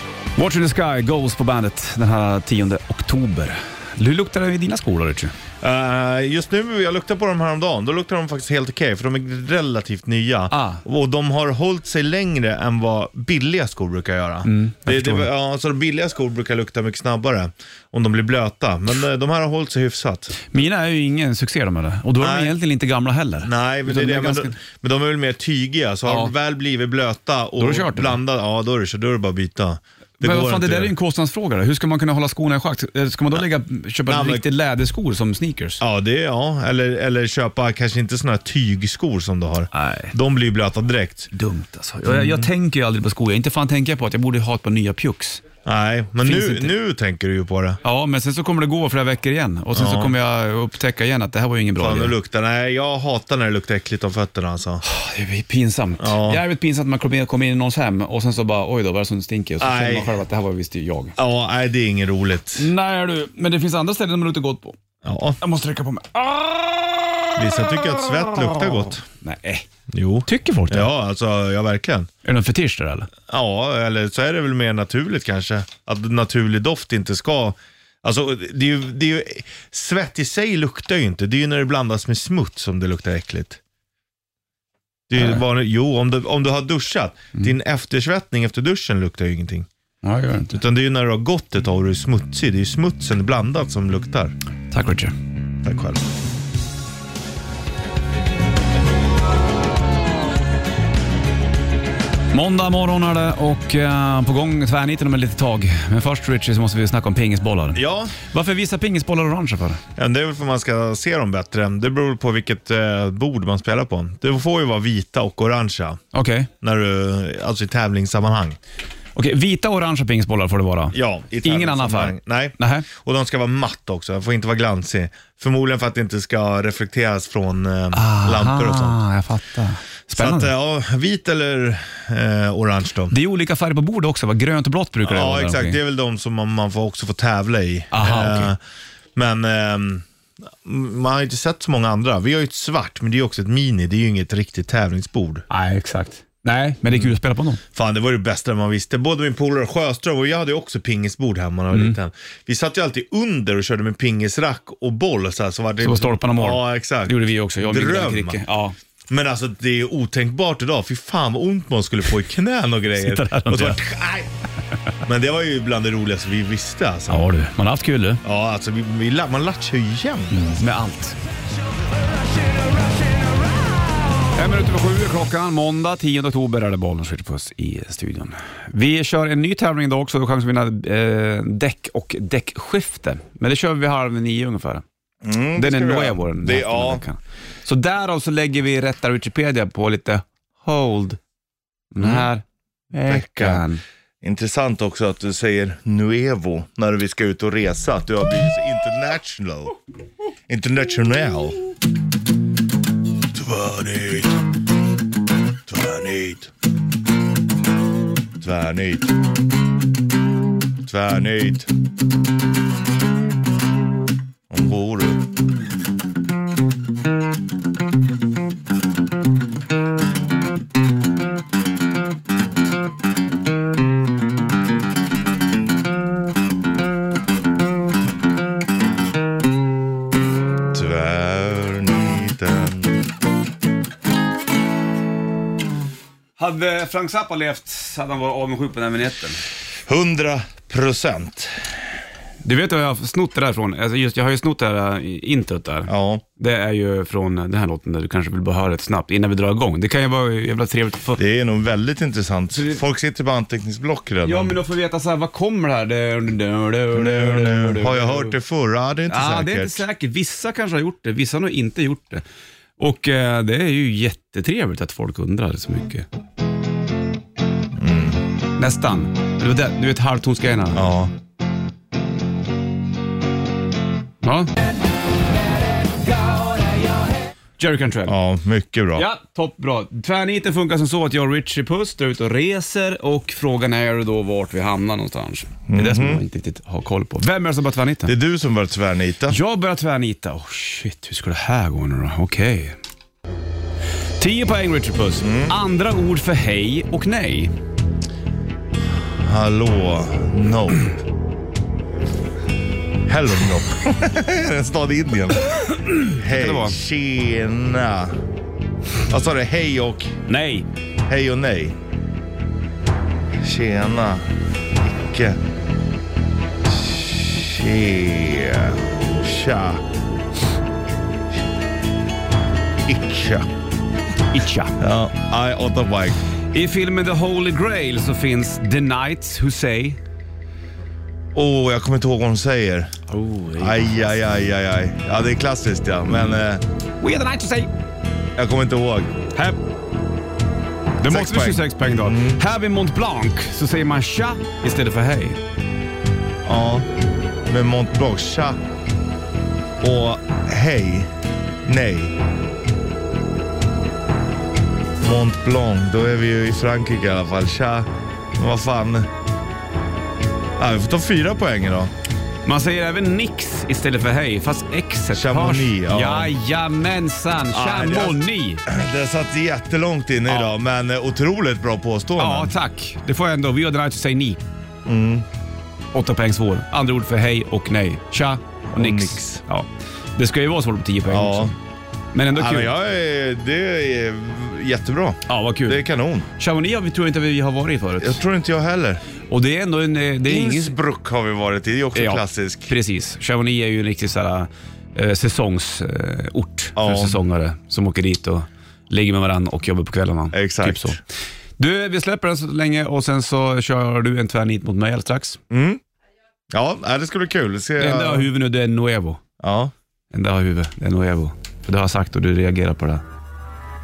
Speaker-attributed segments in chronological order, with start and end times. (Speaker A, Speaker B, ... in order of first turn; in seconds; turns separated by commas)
Speaker A: 0.4-5.3, Speaker B: 5.6-20.4, Speaker A: 10.5-10.8, Speaker A: 14.4-15.3, Speaker A: 20.4-24.6, Speaker B: 22.2-22.6, Speaker B: 23.4-30.9, Speaker A: 26.1-26.3, Speaker A: 27.6-28.2, Speaker A: 30.2-35.8, Speaker B: 34.1-34.4, Speaker B: 35.8-41.3, Speaker A: 39.7-40.1, Speaker A: 41.3-45.4, Speaker B: 42.0-42.5, Speaker B: 45.6-47.8, Speaker A: 46.2-46.8, Speaker A: 47.8-52.1, Speaker B: 49.7-50.2, Speaker B: 51.8-54.8, Speaker A: 54.8-61.2, Speaker B: 56.0-56.4, Speaker B: 59.6-60.2, Speaker B: 61.2-62.7, Speaker A: 62.6-64.8, Speaker B: 65.0-65.4, Speaker A: 65.4-69.7, Speaker B: 67.4-69.0, Speaker B: 69.9-72.1, Speaker A: 70.3-70.9, Speaker A: 72.2-73.1, Speaker B: 73.3-83.6, Speaker B: 85.1-89.7, Speaker A: 90.0-90.6, Speaker B: 90.5-94.4, Speaker A: 94.7-95.2, Speaker B: 95.6-96.0, Speaker A: 102.3-109.8, Speaker B: 107.8-108.2, Speaker B: 110.0-116.0, Speaker A: 116.1-116.5, Speaker B: 116.6-118.6, Speaker A: 119.2-122.9, Speaker B: 120.9-129.0, Speaker A: 127.9-130.5, Speaker B: 130.2-133.2, Speaker A: 133.1-135.8, Speaker B: 135.1-138.6, Speaker A: 137.9-138.5, Speaker B: 139.2-140.1, Speaker B: 140.6-145.4, Speaker A: 145.5-147.6, Speaker B: 147.8-158.4, Speaker A: 155.8-158.8, Speaker B: 159.1-164.3, Speaker A: 162.9-163.8, Speaker B: 165.0-167.3, Speaker A: 167.1-168.2, Speaker B: 168.2-170.4, Speaker A: 170.3-171.2, Speaker A: 174.3-184.8, Speaker B: 185.2-187.0, Speaker A: 185.6-191.2, Speaker A: 191.9-193.8, Speaker B: 193.1-193.7, Speaker B: 194.2-199.8, Speaker B: 200.5-201.6, Speaker B: 203.3-204.4, Speaker B: 205.7-206.5, Speaker B: 208.4-209.2, Speaker B: 210.8-211.7, Speaker B: 214.5-215.2, Speaker B: 230.7-233.0, Speaker A: 236.4-239.4, Speaker B: 239.9-241.7, Speaker A: 242.4-251.2, Speaker B: 245.9-246.2, Speaker B: 251.2-254.6, Speaker A: 252.5-252.8, Speaker A: 254.2-258.4, Speaker B: 256.9-259.8, Speaker A: 259.1-262.2, Speaker A: 262.8-266.1, Speaker B: 267.7-268.2, Speaker A: 268.6-270.9, Speaker B: 270.7-271.1, Speaker A: 274.2-274.5, Speaker A: 277.6-278.2, Speaker B: 278.1-279.1, Speaker A: 278.9-288.1, Speaker B: 285.7-286.2, Speaker B: 288.1-289.4, Speaker A: 289.3-292.8, Speaker A: 294.2-297.5, Speaker B: 295.2-295.5, Speaker B: 299.2-300.9, Speaker B: 303.1-305.5, Speaker A: 305.9-306.8, Speaker B: 306.0-308.2, Speaker B: 309.1-310.2, Speaker A: 310.3-310.6, Speaker B: 311.1-311.8, Speaker B: 313.4-315.4, Speaker B: 316.7-319.9, Speaker B: 322.9-323.5, Speaker A: 324.3-324.8, Speaker B: 324.8-326.2, Speaker A: 326.5-330.0, Speaker B: 331.4-333.0, Speaker A: 333.1-334.1, Speaker B: 333.6-336.6, Speaker A: 337.0-337.7, Speaker B: 338.4-339.1, Speaker A: 339.4-339.6, Speaker A: 341.0-345.4, Speaker B: 341.1-342.4, Speaker B: 346.4-346.9, Speaker B: 347.5-348.6, Speaker B: 349.8-351.1, Speaker B: 351.7-352.2, Speaker B: 355.0-359.1, Speaker B: 360.6-361.9, Speaker A: 362.4-368.6, Speaker B: 365.1-366.3, Speaker B: 367.5-372.6, Speaker A: 370.3-370.5, Speaker A: 372.2-374.4, Speaker B: 374.9-375.3, Speaker A: 375.9-381.6, Speaker B: 378.7-379.4, Speaker B: 381.1-381.5, Speaker A: 382.1-382.7, Speaker B: 382.3-386.3, Speaker A: 385.3-385.8, Speaker A: 386.4-388.2, Speaker B: 388.0-389.0, Speaker A: 389.3-390.8, Speaker B: 390.2-392.7, Speaker A: 391.9-401.0, Speaker B: 396.8-397.2, Speaker B: 400.3-401.0, Speaker A: 401.6-405.4, Speaker B: 405.5-405.8, Speaker B: 406.5-408.3, Speaker A: 407.8-409.2, Speaker B: 409.4-409.7, Speaker A: 410.1-413.0